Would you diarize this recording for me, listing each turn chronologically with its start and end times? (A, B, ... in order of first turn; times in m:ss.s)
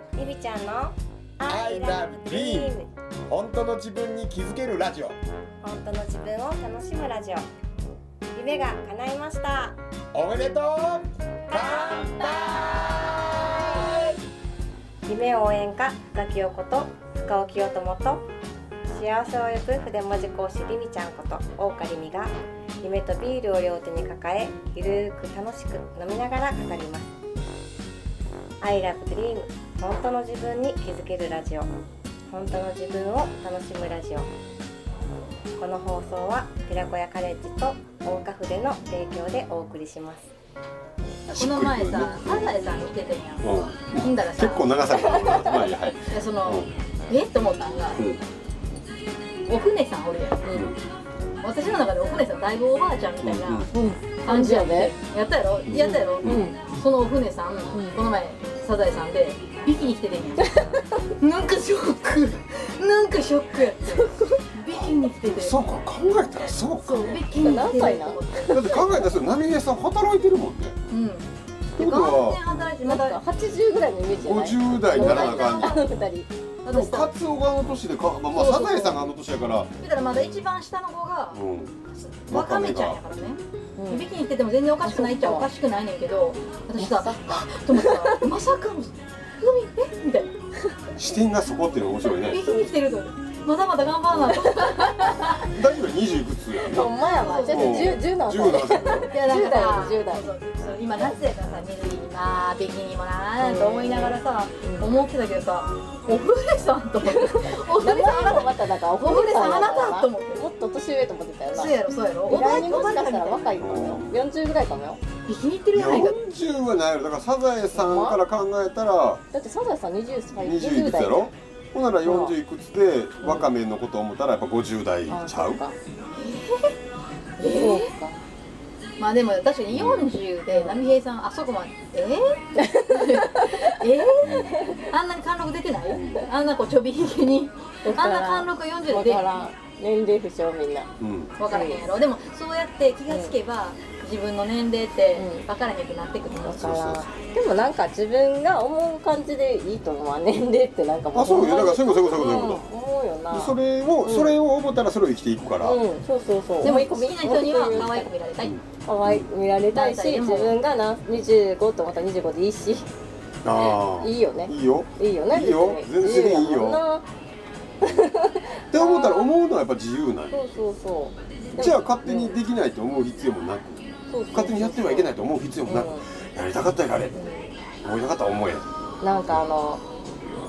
0:00.2-0:02.9 A
0:01.4-0:02.7 B
0:03.3-0:05.2 B
0:05.6-0:07.5 A
0:08.4-0:09.8 A
0:10.1-0:14.1 B
0:11.5-0:12.3 A
0:15.1-0:18.3 A
0:18.9-0:27.1 A
0:28.6-0:31.7 A
0:32.3-0:34.3 A
0:35.6-0:40.3 A
0:41.3-0:42.7 C
0:41.3-0:45.4 D
0:43.4-0:46.7 C
0:46.1-0:48.1 D
0:48.0-0:48.2 C
0:49.5-0:50.5 D
0:50.4-0:50.7 E
0:50.5-0:50.8 C
0:51.4-0:53.7 D
0:53.2-0:53.7 C
0:53.7-0:54.9 E
0:54.2-1:00.6 D
0:55.7-0:56.5 C
0:56.2-0:56.6 E
0:57.7-0:58.0 E
1:01.2-1:05.6 D
1:04.0-1:04.4 E
1:05.3-1:07.2 C
1:06.8-1:08.9 D
1:07.3-1:08.8 E
1:08.5-1:10.8 C
1:10.9-1:13.2 D
1:11.8-1:12.4 C
1:12.8-1:16.3 E
1:14.1-1:15.8 C
1:14.9-1:15.9 D
1:16.6-1:17.1 D
1:16.7-1:19.7 C
1:18.3-1:19.1 D
1:19.8-1:21.4 D
1:21.3-1:21.8 C
1:22.0-1:30.3 D
1:22.3-1:23.0 C
1:23.8-1:24.1 E
1:24.8-1:25.5 E
1:26.8-1:28.2 E
1:31.0-1:32.4 C
1:32.2-1:35.5 D
1:35.5-1:39.1 C
1:36.5-1:40.3 E
1:37.0-1:38.0 D
1:39.0-1:50.5 D
1:43.4-1:45.0 E
1:47.0-1:51.8 E
1:51.5-1:53.7 D
1:52.3-1:55.0 E
1:53.6-1:54.2 C
1:55.3-1:56.2 D
1:55.7-1:59.2 C
1:57.7-1:58.2 E
1:59.3-2:01.3 E
2:00.4-2:05.6 C
2:02.0-2:02.4 E
2:03.2-2:03.5 E
2:05.1-2:05.8 E
2:06.1-2:06.8 D
2:07.4-2:07.9 D
2:07.6-2:08.2 E
2:09.0-2:19.3 D
2:09.7-2:10.1 C
2:10.5-2:10.8 E
2:12.6-2:13.6 E
2:14.2-2:14.6 C
2:15.9-2:16.2 C
2:17.8-2:20.9 E
2:21.0-2:21.3 C
2:21.4-2:26.8 D
2:21.5-2:21.8 E
2:25.2-2:25.4 E
2:26.4-2:34.4 E
2:26.6-2:27.1 C
2:31.1-2:32.6 C
2:32.1-2:32.5 D
2:33.3-2:35.8 C
2:35.6-2:38.1 E
2:36.6-2:38.6 D
2:38.4-2:39.3 C
2:38.8-2:42.9 E
2:39.7-2:40.6 D
2:43.4-2:46.8 C
2:43.5-2:47.0 E
2:47.8-2:49.3 E
2:47.8-2:48.1 C
2:48.7-2:50.4 C
2:50.3-2:52.4 E
2:51.6-2:57.2 C
2:54.1-2:55.1 E
2:55.7-2:56.1 E
2:57.1-2:57.5 E
2:57.8-2:58.7 C
2:59.0-2:59.8 E